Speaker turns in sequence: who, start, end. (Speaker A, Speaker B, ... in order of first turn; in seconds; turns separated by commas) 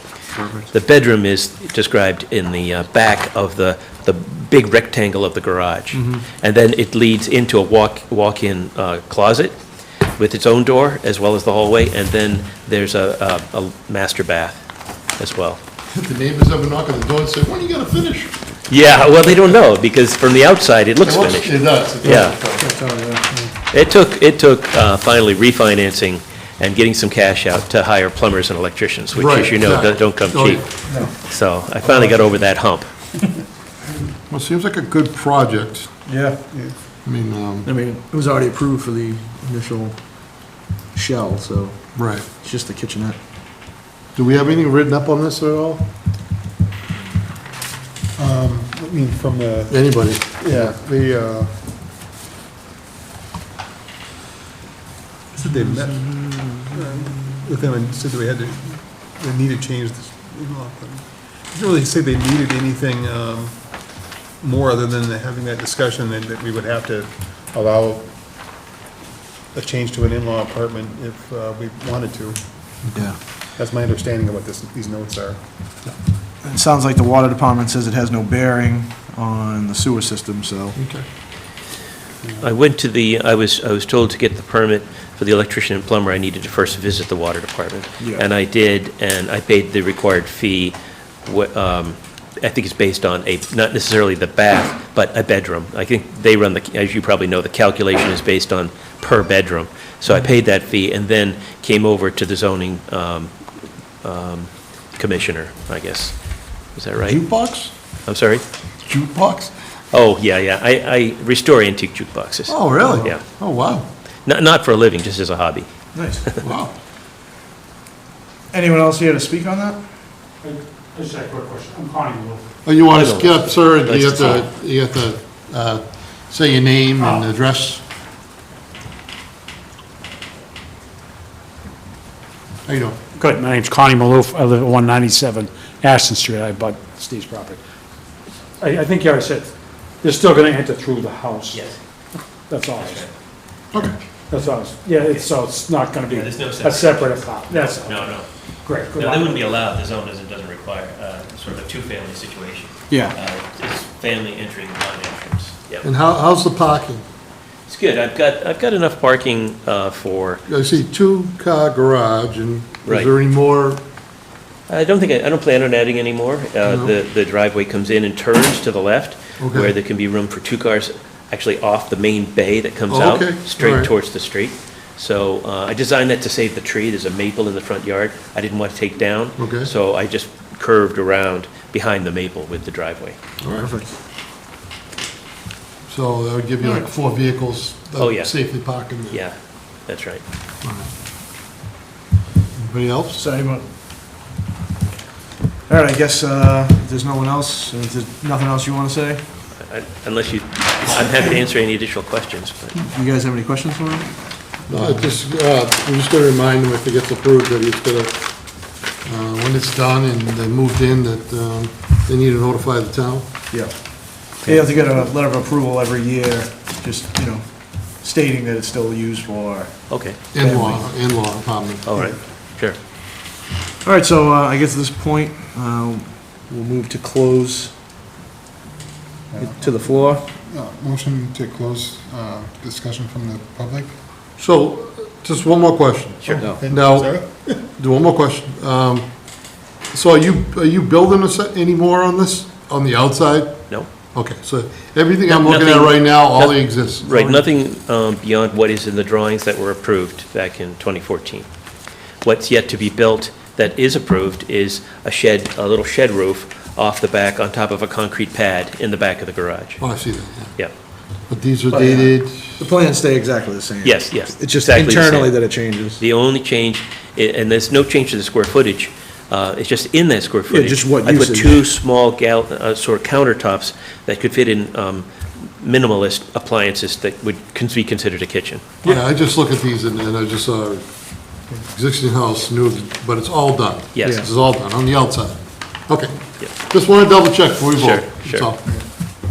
Speaker A: 0.3-0.7, Speaker B: 0.7-9.6, Speaker A: 5.9-6.2, Speaker B: 10.2-14.6, Speaker B: 15.2-15.6, Speaker C: 15.9-18.4, Speaker B: 18.7-22.4, Speaker C: 21.0-22.8, Speaker A: 22.6-23.2, Speaker B: 23.7-33.2, Speaker C: 29.1-30.7, Speaker A: 30.9-31.1, Speaker C: 31.8-32.2, Speaker C: 34.1-35.9, Speaker A: 36.1-36.4, Speaker C: 37.0-37.7, Speaker A: 37.6-43.2, Speaker C: 42.0-42.3, Speaker C: 44.1-45.9, Speaker D: 48.2-51.6, Speaker C: 49.7-50.8, Speaker D: 55.3-56.2, Speaker A: 55.5-57.5, Speaker D: 56.7-68.5, Speaker D: 69.5-75.4, Speaker A: 76.4-80.8, Speaker C: 80.8-81.0, Speaker B: 82.4-103.3, Speaker B: 104.0-106.2, Speaker B: 106.8-107.2, Speaker C: 107.0-107.7, Speaker B: 108.1-108.4, Speaker C: 108.8-109.5, Speaker B: 109.9-113.2, Speaker C: 112.5-113.9, Speaker B: 114.3-115.7, Speaker A: 116.0-116.2, Speaker C: 116.4-116.7, Speaker A: 118.5-119.8, Speaker E: 120.4-122.5, Speaker C: 122.7-127.8, Speaker B: 122.9-124.5, Speaker C: 132.7-133.0, Speaker E: 133.2-137.6, Speaker E: 138.6-141.7, Speaker B: 141.5-141.8, Speaker E: 142.5-143.1, Speaker B: 142.8-143.1, Speaker E: 144.3-149.4, Speaker B: 146.1-155.8, Speaker A: 152.9-153.2, Speaker C: 155.8-157.0, Speaker B: 157.7-160.4, Speaker C: 160.5-163.8, Speaker B: 162.8-163.1, Speaker B: 164.7-183.2, Speaker C: 166.7-166.9, Speaker C: 169.4-169.7, Speaker C: 172.9-173.9, Speaker C: 179.4-179.7, Speaker C: 183.4-183.7, Speaker A: 183.6-183.9, Speaker C: 185.9-189.2, Speaker A: 186.6-186.9, Speaker B: 188.0-188.4, Speaker B: 189.1-190.2, Speaker C: 190.6-190.9, Speaker C: 192.6-193.2, Speaker A: 193.2-193.7, Speaker A: 195.7-199.3, Speaker B: 199.5-202.8, Speaker A: 202.8-205.1, Speaker C: 204.7-213.3, Speaker A: 213.5-220.9, Speaker B: 219.9-220.2, Speaker C: 220.3-221.9, Speaker B: 221.8-222.8, Speaker A: 223.8-227.7, Speaker D: 229.3-233.9, Speaker A: 229.4-230.3, Speaker C: 234.4-247.5, Speaker B: 236.2-236.5, Speaker D: 236.3-237.6, Speaker B: 245.3-251.5, Speaker B: 252.2-259.8, Speaker C: 259.8-260.6, Speaker C: 261.2-262.6, Speaker A: 261.7-266.0, Speaker B: 263.8-278.7, Speaker A: 270.5-271.7, Speaker C: 278.8-288.6, Speaker B: 283.9-284.3, Speaker A: 284.0-284.3, Speaker B: 287.8-288.5